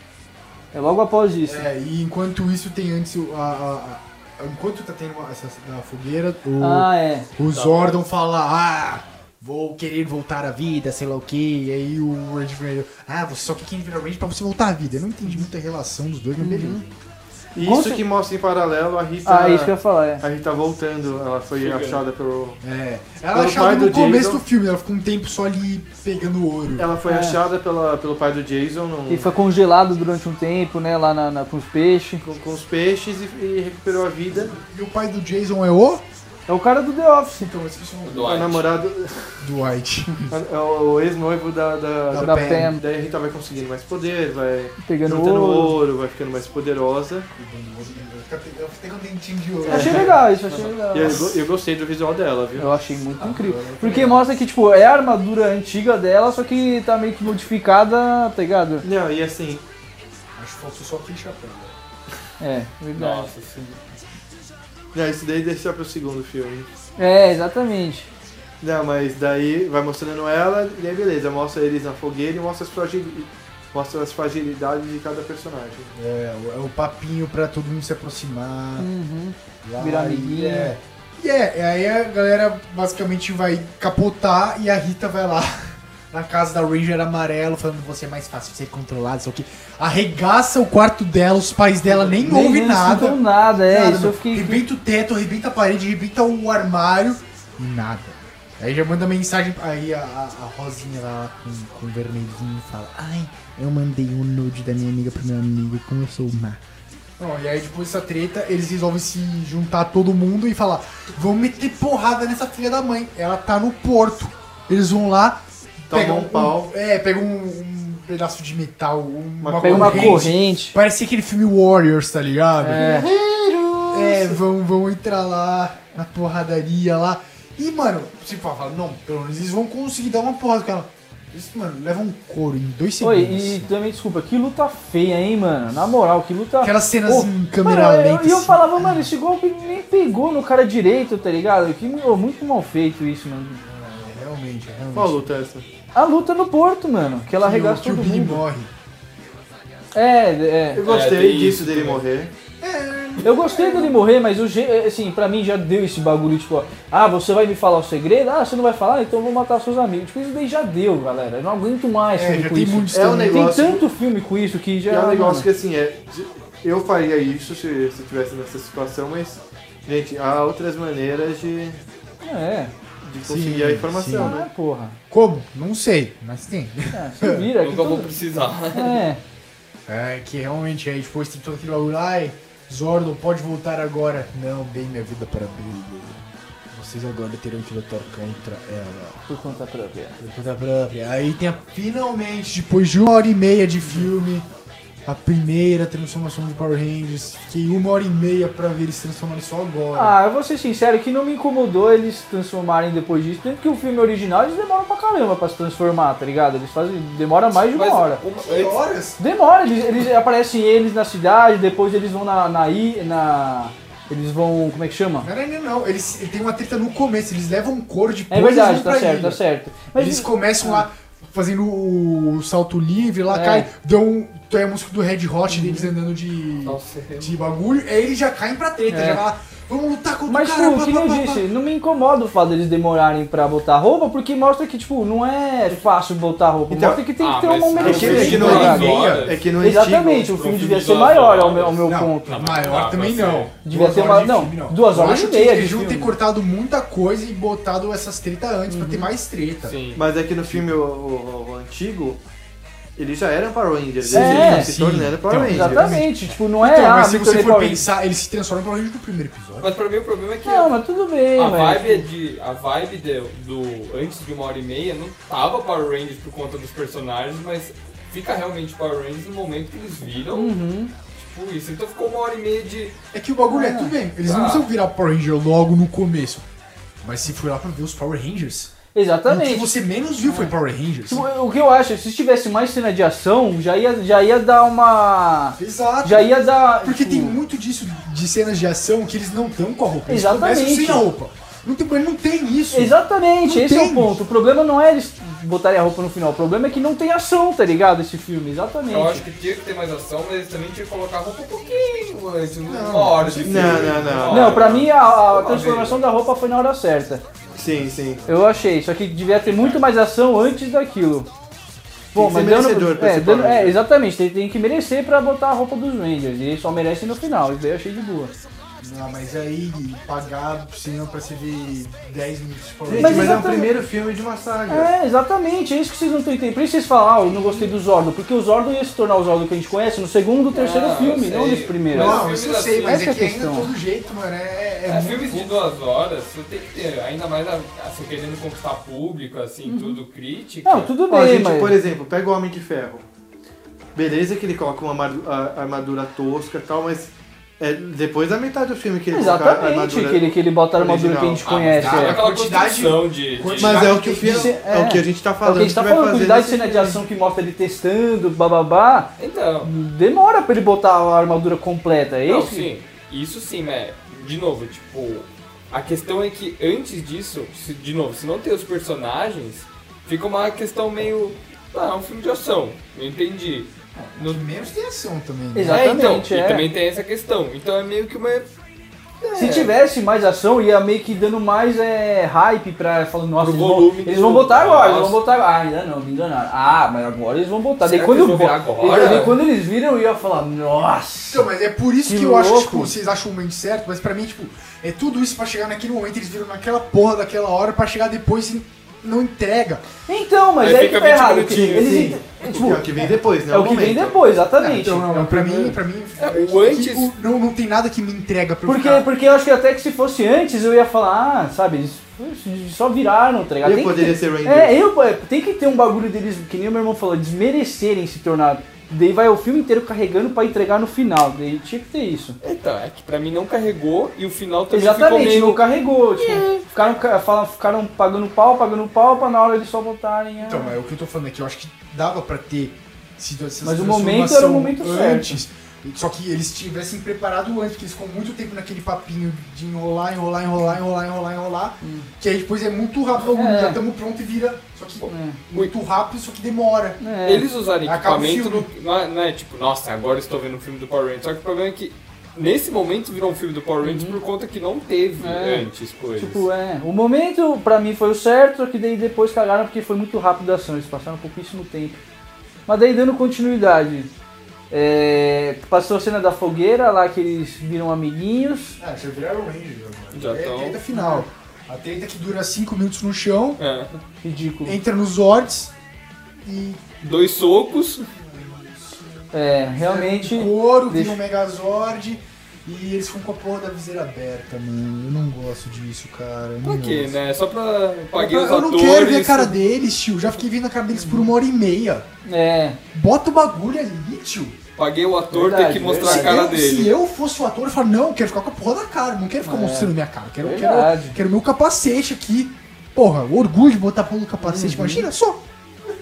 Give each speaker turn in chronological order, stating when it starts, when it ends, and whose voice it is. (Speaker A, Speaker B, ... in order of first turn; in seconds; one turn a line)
Speaker A: 0.7-1.6
Speaker B: 1.4-16.9
Speaker A: 6.6-7.3
Speaker C: 7.5-8.0
Speaker A: 16.4-16.8
Speaker D: 17.6-22.6
Speaker A: 17.6-18.0
Speaker A: 19.2-20.2
Speaker C: 21.6-22.0
Speaker B: 22.6-26.9
Speaker D: 23.3-24.4
Speaker D: 26.8-29.3
Speaker A: 27.1-27.4
Speaker A: 29.1-32.2
Speaker D: 32.2-34.6
Speaker B: 34.6-36.0
Speaker A: 36.5-37.5
Speaker B: 37.4-38.4
Speaker C: 38.0-38.7
Speaker D: 38.2-39.4
Speaker B: 39.4-40.4
Speaker D: 40.3-47.3
Speaker B: 42.1-42.7
Speaker A: 42.2-42.8
Speaker A: 44.8-45.8
Speaker B: 47.4-50.2
Speaker D: 49.6-50.2
Speaker A: 49.7-51.3
Speaker D: 50.9-52.7
Speaker A: 52.6-58.9
Speaker B: 53.2-54.2
Speaker D: 58.8-59.6
Speaker B: 60.4-61.7
Speaker A: 62.4-63.3
Speaker C: 63.0-63.8
Speaker D: 64.9-66.7
Speaker A: 67.0-68.1
Speaker D: 68.6-75.9
Speaker B: 76.0-78.9
Speaker A: 78.8-80.7
Speaker B: 79.6-106.6
Speaker A: 92.1-94.6
Speaker B: 107.2-123.1
Speaker D: 115.9-116.7
Speaker D: 119.4-120.3
Speaker A: 119.6-120.8
Speaker A: 122.6-123.1
Speaker D: 122.8-124.3
Speaker B: 123.9-133.7
Speaker A: 133.0-143.6
Speaker B: 136.6-139.1
Speaker B: 143.6-145.3
Speaker D: 144.9-145.7
Speaker A: 145.9-148.4
Speaker B: 147.4-148.7
Speaker A: 149.9-150.8
Speaker D: 150.7-152.3
Speaker C: 150.8-152.0
Speaker B: 152.6-154.0
Speaker A: 153.2-165.5
Speaker B: 162.1-163.5
Speaker D: 162.9-163.8
Speaker D: 164.9-171.8
Speaker A: 172.2-172.7
Speaker D: 173.0-174.4
Speaker B: 173.2-174.4
Speaker A: 174.2-175.0
Speaker B: 175.1-177.5
Speaker A: 176.9-178.2
Speaker C: 177.6-179.0
Speaker A: 178.7-179.2
Speaker B: 179.9-189.2
Speaker A: 189.3-190.2
Speaker B: 190.2-194.5
Speaker B: 195.1-200.2
Speaker A: 199.9-208.2
Speaker C: 207.5-208.8
Speaker B: 208.4-209.2
Speaker A: 209.2-215.3
Speaker B: 215.2-219.4
Speaker A: 218.3-220.8
Speaker B: 219.9-231.5
Speaker A: 223.3-223.7
Speaker A: 225.5-225.9
Speaker C: 226.7-227.3
Speaker A: 228.9-229.2
Speaker A: 230.3-238.9
Speaker D: 236.7-237.0
Speaker C: 237.2-243.5
Speaker B: 237.8-239.3
Speaker D: 237.8-240.3
Speaker A: 239.6-242.5
Speaker B: 241.8-249.8
Speaker A: 243.6-246.1
Speaker A: 248.7-249.1
Speaker C: 249.6-250.0
Speaker D: 250.0-252.2
Speaker D: 253.0-256.1
Speaker B: 254.0-259.7
Speaker A: 254.1-254.7
Speaker A: 255.5-257.8
Speaker C: 259.6-260.8
Speaker A: 260.4-262.1
Speaker C: 261.4-270.6
Speaker A: 270.3-270.9
Speaker C: 271.1-273.0
Speaker B: 273.1-276.4
Speaker A: 273.5-273.9
Speaker C: 274.2-274.7
Speaker B: 277.0-278.7
Speaker A: 278.9-280.5
Speaker B: 279.3-281.3
Speaker A: 281.1-287.4
Speaker B: 285.6-294.2
Speaker A: 290.1-291.1
Speaker A: 292.7-299.2
Speaker C: 298.9-306.1
Speaker B: 302.7-304.4
Speaker D: 303.4-304.7
Speaker A: 304.3-307.2
Speaker D: 307.6-308.3
Speaker A: 308.3-311.3
Speaker C: 309.4-309.8
Speaker D: 312.1-313.8
Speaker A: 312.1-318.3
Speaker B: 318.8-323.5
Speaker D: 322.9-324.9
Speaker A: 323.0-323.7
Speaker A: 324.7-332.2
Speaker C: 330.5-333.0
Speaker B: 331.9-335.5
Speaker A: 332.8-333.7
Speaker C: 334.9-340.9
Speaker A: 339.7-340.0
Speaker A: 340.6-341.8
Speaker D: 341.1-343.1
Speaker D: 344.0-351.5
Speaker A: 349.1-352.2
Speaker C: 351.5-354.0
Speaker B: 351.8-354.5
Speaker D: 353.6-357.0
Speaker A: 354.2-359.1
Speaker C: 359.2-359.7
Speaker A: 359.6-362.7
Speaker C: 362.3-374.4
Speaker B: 374.0-375.9
Speaker A: 375.5-376.6
Speaker C: 375.7-378.5
Speaker C: 379.2-379.7
Speaker A: 379.4-391.5
Speaker C: 383.4-385.2
Speaker C: 387.8-389.4
Speaker D: 388.8-389.3
Speaker B: 391.3-399.8
Speaker A: 392.0-392.9
Speaker A: 400.1-403.0
Speaker C: 400.6-402.2
Speaker D: 401.6-404.3
Speaker A: 403.5-405.8
Speaker B: 404.6-409.1
Speaker C: 406.2-407.1
Speaker A: 408.7-422.4
Speaker D: 413.6-414.8
Speaker C: 422.4-425.6
Speaker A: 424.7-430.7
Speaker C: 426.2-426.6
Speaker B: 430.4-447.0
Speaker A: 433.6-435.4
Speaker A: 441.8-442.1
Speaker A: 443.3-443.8
Speaker A: 445.1-445.4
Speaker A: 447.0-447.5
Speaker C: 447.2-456.5
Speaker B: 447.8-448.7
Speaker A: 453.8-454.2
Speaker A: 455.2-462.0
Speaker A: 462.7-464.1
Speaker A: 464.7-468.8
Speaker B: 468.8-473.6
Speaker C: 470.1-470.8
Speaker A: 470.9-471.3
Speaker C: 473.6-474.0
Speaker A: 474.2-474.8
Speaker B: 474.7-475.7
Speaker B: 476.4-476.9
Speaker C: 477.0-478.1
Speaker B: 478.1-479.0
Speaker A: 479.3-481.2
Speaker B: 479.8-487.2
Speaker C: 486.6-489.6
Speaker B: 488.1-492.1
Speaker A: 490.9-491.3
Speaker A: 492.3-492.8
Speaker B: 492.9-494.6
Speaker C: 494.8-497.0
Speaker A: 495.3-496.4
Speaker B: 496.0-505.4
Speaker A: 499.4-501.1
Speaker A: 504.4-505.1